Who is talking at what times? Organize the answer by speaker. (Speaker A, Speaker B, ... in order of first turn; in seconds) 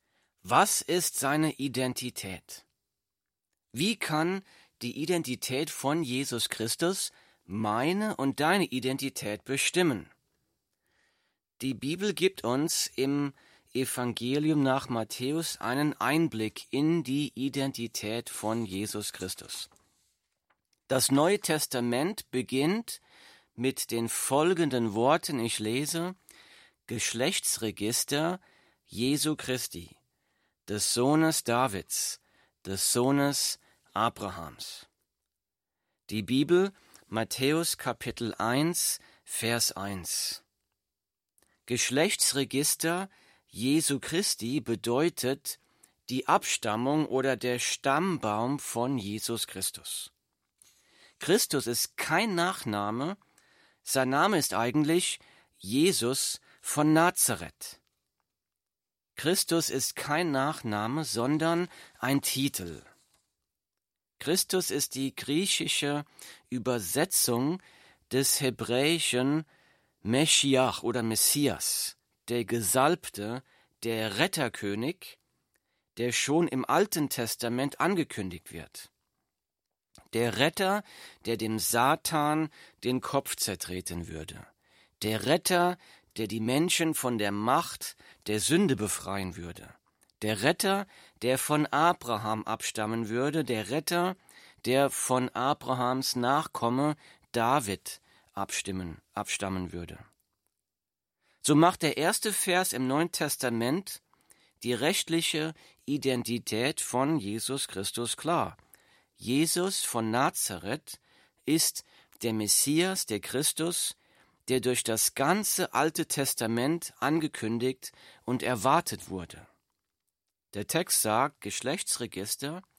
Speaker A: 0.4-2.6, 3.7-10.1, 11.6-19.7, 20.9-23.0, 23.6-26.2, 26.9-30.0, 30.7-34.9, 36.1-40.4, 41.6-50.1, 51.2-53.2, 53.8-57.8, 59.1-62.9, 64.2-69.5, 70.0-75.2, 76.0-78.9, 80.1-84.5, 85.0-100.1, 101.4-104.0, 104.6-108.6, 109.2-114.0, 114.5-119.5, 120.5-122.6